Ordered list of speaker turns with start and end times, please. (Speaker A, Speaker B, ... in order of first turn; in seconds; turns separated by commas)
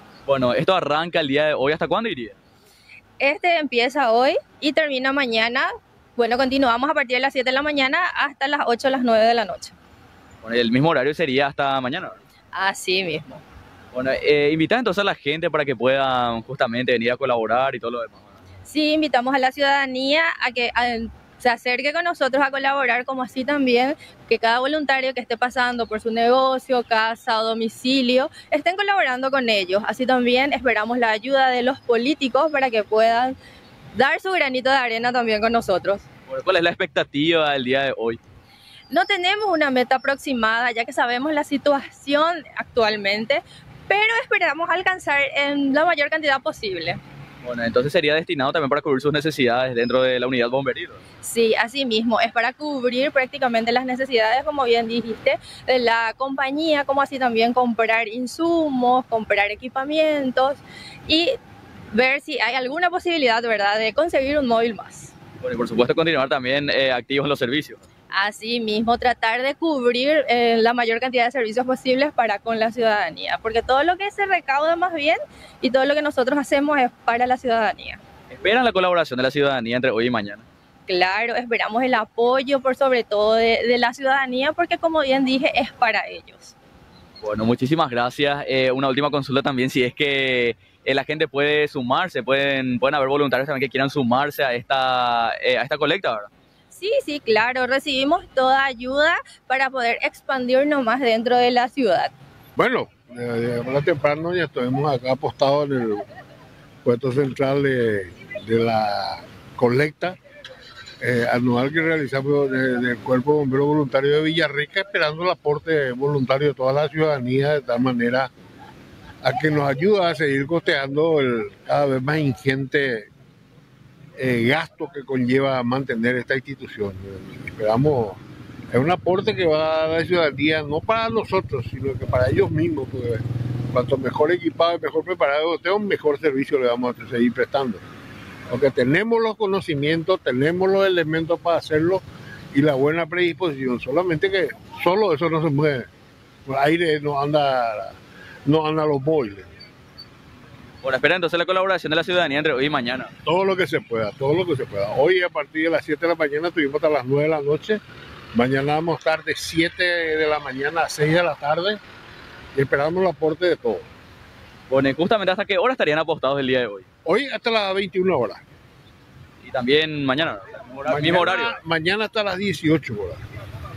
Speaker A: 0.3-2.4, Speaker B: 3.2-9.8, Speaker A: 10.4-12.2, Speaker B: 12.6-13.4, Speaker A: 13.9-18.4, Speaker B: 18.7-33.4, Speaker B: 34.0-36.1, Speaker A: 36.3-38.2, Speaker B: 38.9-47.0, Speaker A: 47.4-51.0, Speaker B: 51.2-61.4, Speaker B: 61.9-65.1, Speaker A: 65.4-67.8, Speaker B: 68.1-78.0, Speaker A: 78.3-80.5, Speaker B: 80.9-86.5, Speaker A: 87.2-96.3, Speaker B: 96.7-102.1, Speaker C: 102.6-106.0, Speaker C: 106.8-110.2, Speaker C: 111.0-118.3, Speaker C: 119.2-123.1, Speaker C: 124.2-128.2, Speaker C: 128.7-137.8, Speaker C: 138.5-145.9, Speaker C: 146.5-147.9, Speaker C: 148.5-149.5, Speaker A: 150.8-153.1, Speaker C: 153.2-157.8, Speaker C: 158.3-161.8, Speaker C: 162.6-163.9, Speaker A: 164.7-166.9, Speaker C: 167.1-168.4, Speaker A: 169.4-171.6, Speaker C: 170.9-173.2